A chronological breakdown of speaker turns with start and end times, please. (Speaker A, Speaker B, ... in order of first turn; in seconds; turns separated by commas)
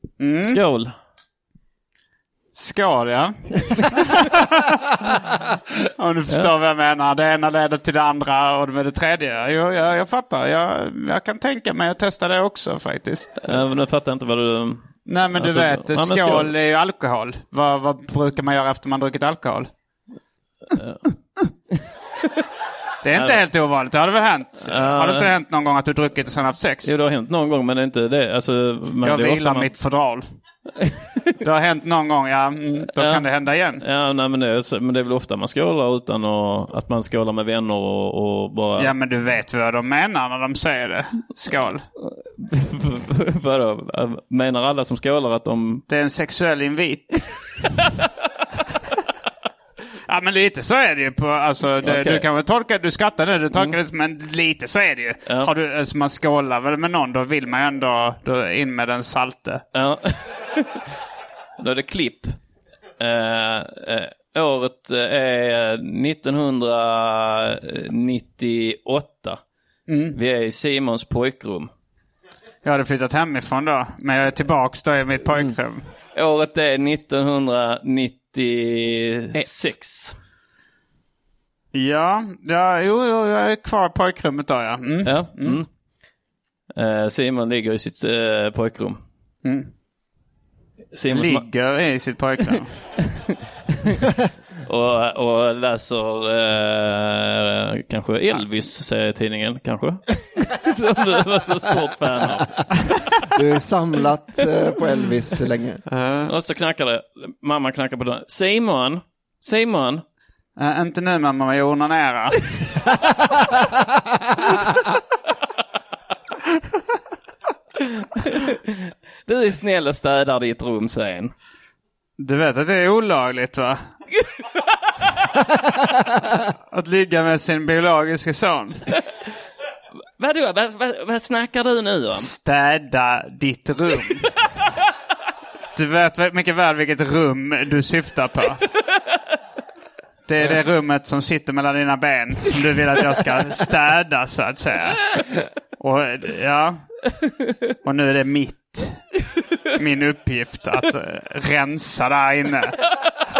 Speaker A: 0.2-0.6, Speaker B: 0.5-0.9, Speaker A: 2.5-4.9, Speaker A: 6.0-13.6, Speaker B: 13.4-16.5, Speaker A: 15.1-19.7, Speaker B: 20.7-21.1, Speaker A: 23.0-26.9, Speaker B: 23.1-23.4, Speaker B: 24.6-25.3, Speaker B: 26.8-29.7, Speaker A: 29.0-30.2, Speaker B: 30.8-31.4, Speaker A: 31.4-33.8, Speaker B: 33.0-33.3, Speaker B: 33.8-38.9, Speaker A: 38.8-41.8, Speaker B: 42.0-45.8, Speaker A: 45.9-47.3, Speaker A: 50.1-59.6, Speaker B: 51.8-52.3, Speaker B: 55.3-55.5, Speaker B: 59.7-60.9, Speaker B: 61.6-62.4, Speaker B: 63.0-69.4, Speaker A: 69.9-70.2, Speaker B: 70.1-71.7, Speaker A: 72.6-75.9, Speaker B: 76.1-80.2, Speaker A: 81.7-85.6, Speaker B: 85.0-85.7, Speaker B: 86.8-89.0, Speaker A: 89.4-89.7, Speaker B: 90.9-91.5, Speaker A: 91.1-92.8, Speaker B: 93.0-94.1, Speaker B: 94.7-102.7, Speaker C: 103.3-105.8, Speaker A: 105.9-106.3, Speaker B: 106.3-110.0, Speaker A: 110.6-112.5, Speaker B: 117.8-121.3, Speaker A: 122.2-123.8, Speaker A: 126.7-128.8, Speaker B: 130.2-132.3, Speaker A: 132.2-134.3, Speaker A: 135.8-138.6, Speaker A: 140.3-145.2, Speaker A: 145.8-146.8, Speaker A: 147.8-149.0, Speaker A: 149.7-152.8